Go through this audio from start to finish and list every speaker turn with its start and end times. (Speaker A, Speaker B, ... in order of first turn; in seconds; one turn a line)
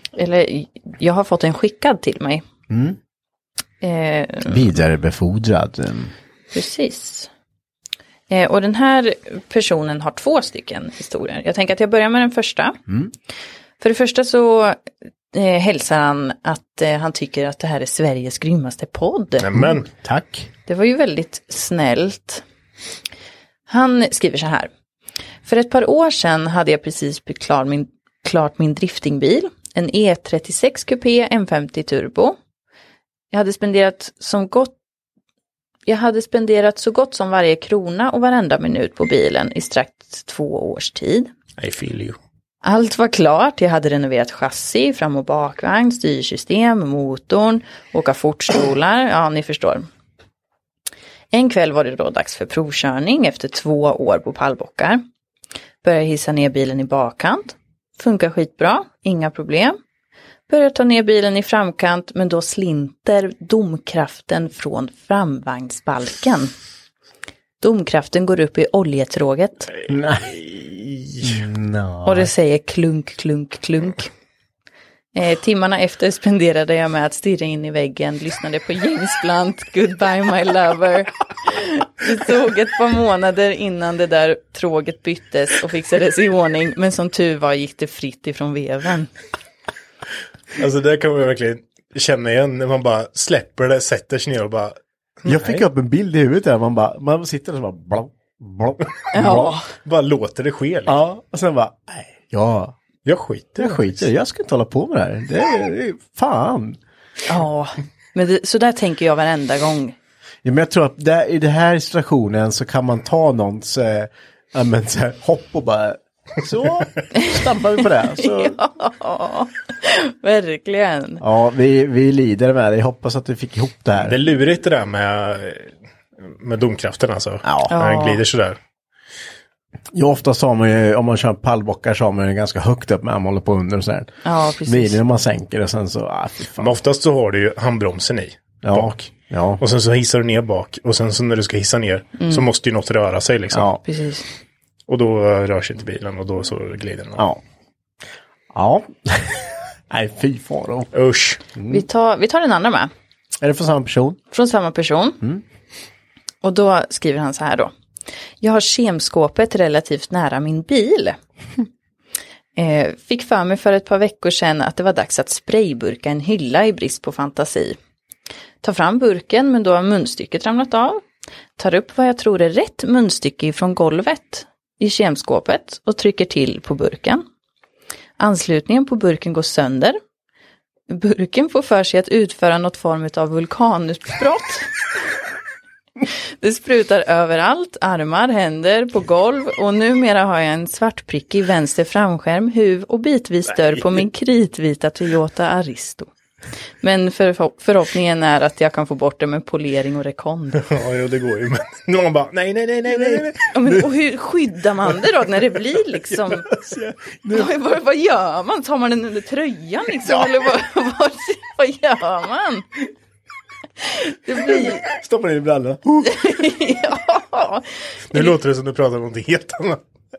Speaker A: 0.1-2.4
Speaker B: 2.7-3.0
Speaker A: 3.8-4.6
Speaker B: 4.5-6.1
Speaker A: 6.5-7.3
Speaker A: 8.3-12.8
Speaker A: 13.8-14.8
Speaker A: 15.3-19.4
Speaker C: 19.4-19.9
Speaker B: 19.5-20.5
Speaker A: 20.7-22.4
Speaker A: 23.7-24.7
Speaker A: 25.4-32.4
Speaker A: 33.3-34.7
Speaker A: 35.9-41.3
Speaker C: 41.6-42.2
Speaker A: 42.6-49.9
Speaker A: 51.3-55.0
Speaker A: 55.8-59.8
Speaker A: 60.5-66.5
Speaker A: 67.6-69.7
Speaker B: 69.9-70.5
Speaker C: 70.3-71.4
Speaker B: 71.2-72.3
Speaker A: 72.0-74.1
Speaker A: 75.1-89.1
Speaker C: 90.6-95.6
Speaker B: 95.2-99.5
Speaker A: 99.1-99.7
Speaker C: 99.8-101.0
Speaker B: 100.9-102.7
Speaker C: 103.0-104.0
Speaker B: 103.6-106.8
Speaker A: 107.3-109.9
Speaker B: 110.4-118.6
Speaker A: 118.1-121.2
Speaker B: 121.2-124.2
Speaker C: 124.0-125.7
Speaker C: 126.2-128.6
Speaker B: 127.4-127.8
Speaker A: 127.7-128.2
Speaker B: 129.9-134.1
Speaker A: 134.2-135.0
Speaker B: 134.6-136.7
Speaker C: 136.6-139.0
Speaker B: 138.6-139.6
Speaker C: 139.6-143.7
Speaker B: 143.5-143.8
Speaker A: 143.8-144.2
Speaker C: 144.9-147.2
Speaker B: 148.5-150.9
Speaker C: 150.9-151.4
Speaker B: 151.6-151.8
Speaker A: 151.7-152.9
Speaker B: 153.4-154.2
Speaker A: 154.3-155.2
Speaker A: 156.4-157.7
Speaker A: 158.4-161.2
Speaker A: 162.6-167.8
Speaker A: 168.6-171.0
Speaker A: 171.6-177.2
Speaker A: 178.2-180.0
Speaker A: 180.9-184.7
Speaker A: 186.4-196.1
Speaker A: 196.8-200.6
Speaker C: 200.6-203.5
Speaker B: 202.9-203.3
Speaker A: 203.5-206.5
Speaker B: 206.5-207.5
Speaker A: 207.3-212.7
Speaker B: 210.0-210.3
Speaker A: 213.8-214.8
Speaker B: 214.4-216.4
Speaker A: 216.0-218.3
Speaker C: 218.1-219.8